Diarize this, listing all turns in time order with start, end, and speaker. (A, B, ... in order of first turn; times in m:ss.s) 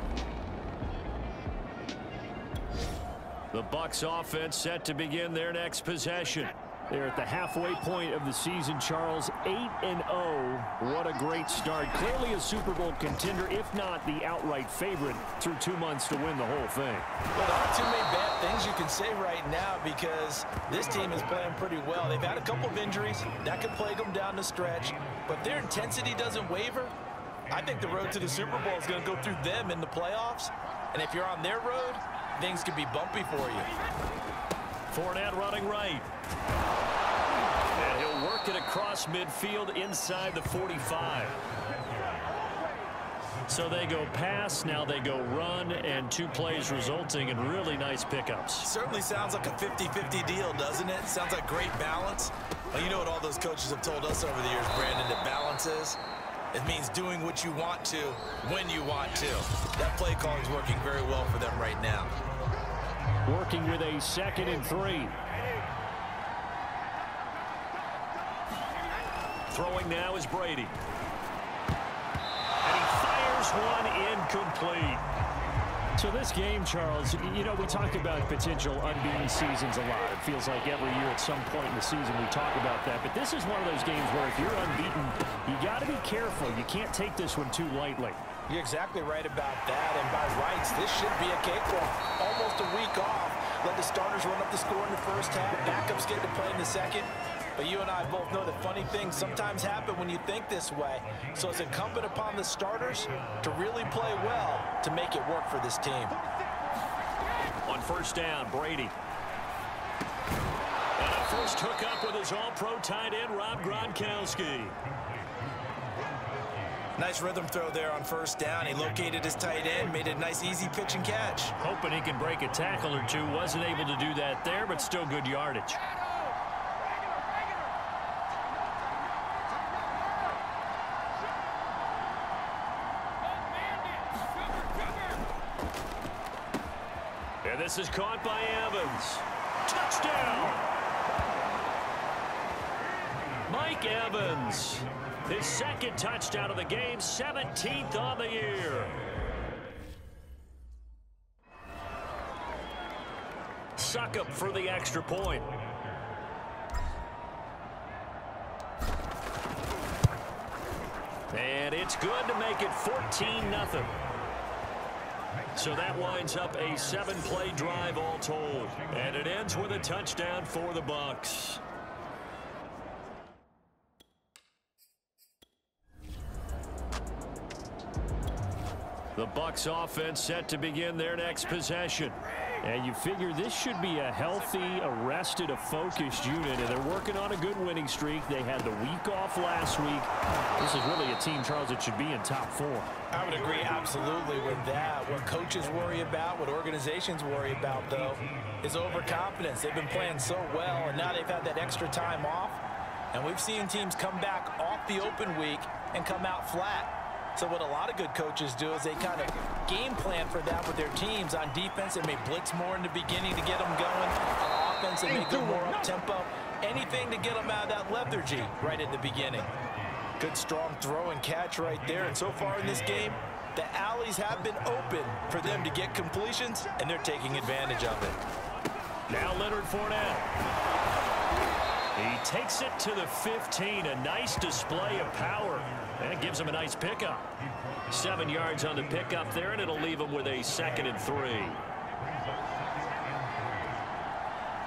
0:03.5-0:17.1 A
0:17.3-0:26.9 B
0:27.5-0:33.7 B
0:34.9-0:36.1 A
0:37.8-0:41.4 A
0:43.5-0:48.7 A
0:48.6-0:56.0 B
0:56.5-1:02.1 B
1:03.3-1:05.2 A
1:09.5-1:10.8 A
1:12.6-1:15.0 A
1:16.0-1:28.2 A
1:28.5-1:46.2 B
1:47.7-1:49.0 A
1:51.0-1:54.8 A
1:57.0-2:01.5 B
2:01.6-2:05.8 A
2:17.4-2:20.7 A
2:23.5-2:29.0 A
2:33.8-2:35.6 A
2:41.3-2:44.0 A
2:45.6-2:51.6 A
2:59.2-3:12.9 A
3:13.1-3:22.6 B
3:23.1-3:39.5 B
3:40.2-3:48.2 B
3:49.1-3:50.3 A
3:52.0-3:57.3 A
3:57.9-4:01.6 A